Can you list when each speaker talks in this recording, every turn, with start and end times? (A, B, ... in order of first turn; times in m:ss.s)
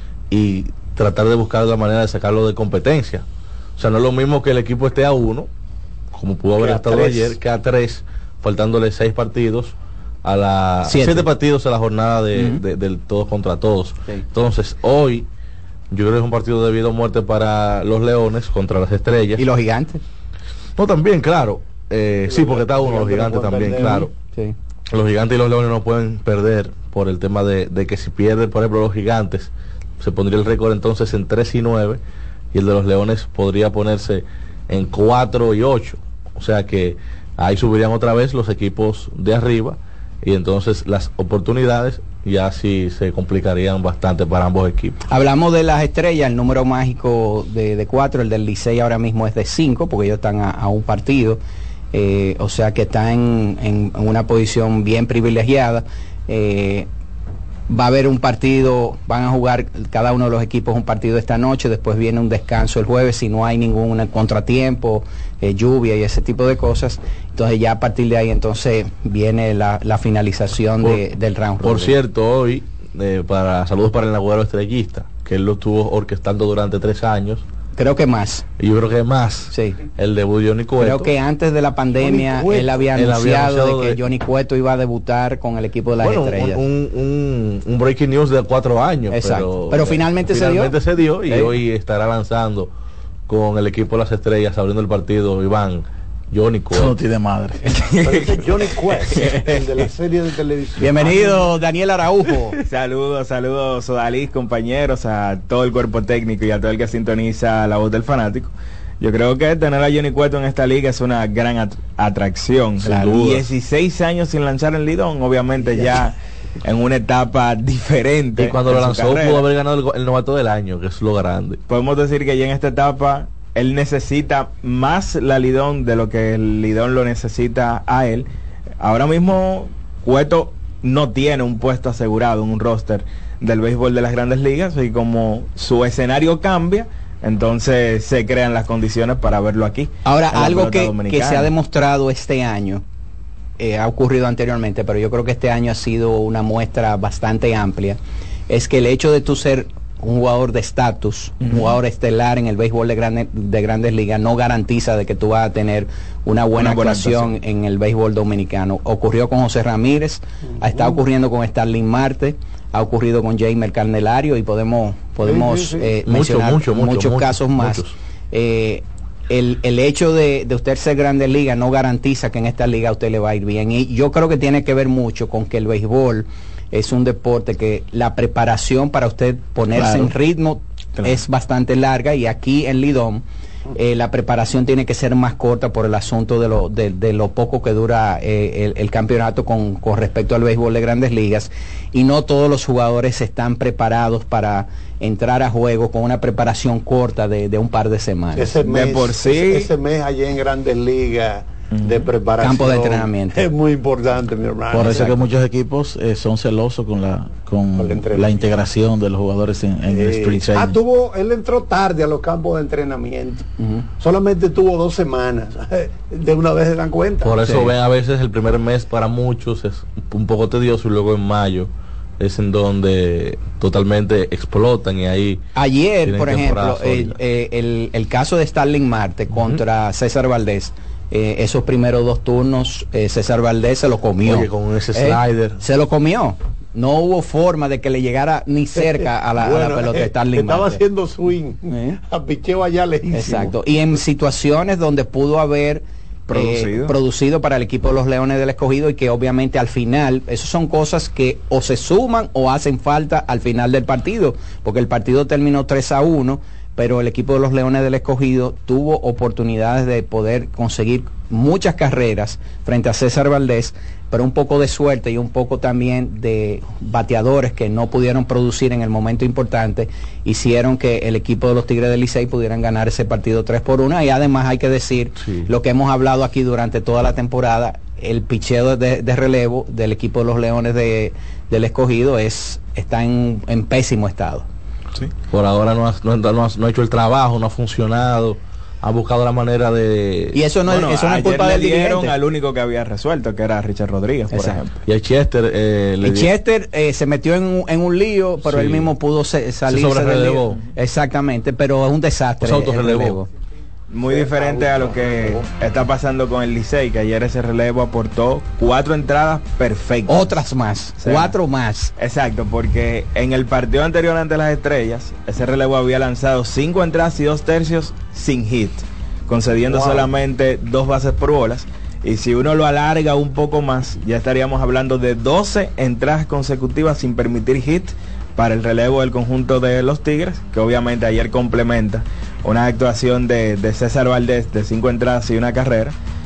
0:00.3-0:03.2 A
0:03.8-0:05.5 A
0:06.1-0:15.3 A
0:06.6-0:07.4 B
0:10.8-0:11.3 C
0:12.3-0:12.6 C
0:15.9-0:19.4 A
0:19.4-0:20.0 C
0:20.8-0:24.1 A
0:22.3-0:24.1 B
0:24.9-0:32.0 A
0:32.5-0:45.0 A
0:45.1-0:51.4 C
0:51.9-0:56.9 C
0:57.7-1:12.0 C
1:11.6-1:17.4 A
1:17.8-1:18.4 C
1:18.6-1:21.1 A
1:19.5-1:19.8 C
1:20.8-1:26.6 C
1:21.9-1:22.8 B
1:22.9-1:24.0 A
1:26.0-1:32.7 A
1:29.1-1:30.7 C
1:33.3-1:36.9 A
1:36.7-1:37.6 D
1:37.7-1:39.7 E
1:38.0-1:41.5 B
1:40.8-1:42.6 C
1:42.7-1:59.4 E
1:52.8-1:53.4 A
1:58.4-2:01.6 A
2:01.7-2:08.3 E
2:08.8-2:21.5 E
2:20.0-2:22.8 C
2:23.6-3:03.2 C
2:36.6-2:37.3 E
2:40.6-2:41.0 B
2:45.2-2:45.9 B
2:46.0-2:47.9 A
2:59.7-3:00.1 D
3:03.8-3:18.5 C
3:18.3-3:25.3 B
3:18.6-3:19.7 E
3:21.7-3:22.1 E
3:22.4-3:23.4 C
3:24.7-3:30.8 D
3:27.8-3:28.4 B
3:29.9-3:33.5 B
3:33.6-3:33.8 C
3:34.0-3:37.4 B
3:37.2-3:45.4 A
3:37.4-3:37.7 C
3:45.6-4:00.8 C
3:46.0-3:47.1 A
3:49.3-3:49.6 A
3:54.2-3:55.6 A
3:58.8-4:03.5 B
4:01.7-4:02.0 C
4:03.1-4:44.5 C
4:06.3-4:06.9 E
4:35.2-4:35.5 A
4:45.3-4:50.4 A
4:50.3-4:52.1 C
4:50.7-4:54.6 E
4:54.3-4:54.6 C
4:54.3-4:56.3 A
4:56.0-5:03.3 C
4:58.4-4:58.9 A
4:59.7-5:00.6 A
5:02.4-5:03.2 A
5:03.9-5:10.4 E
5:04.1-5:05.4 B
5:10.1-5:11.9 C
5:11.0-5:11.4 E
5:12.0-5:35.9 E
5:19.7-5:20.1 B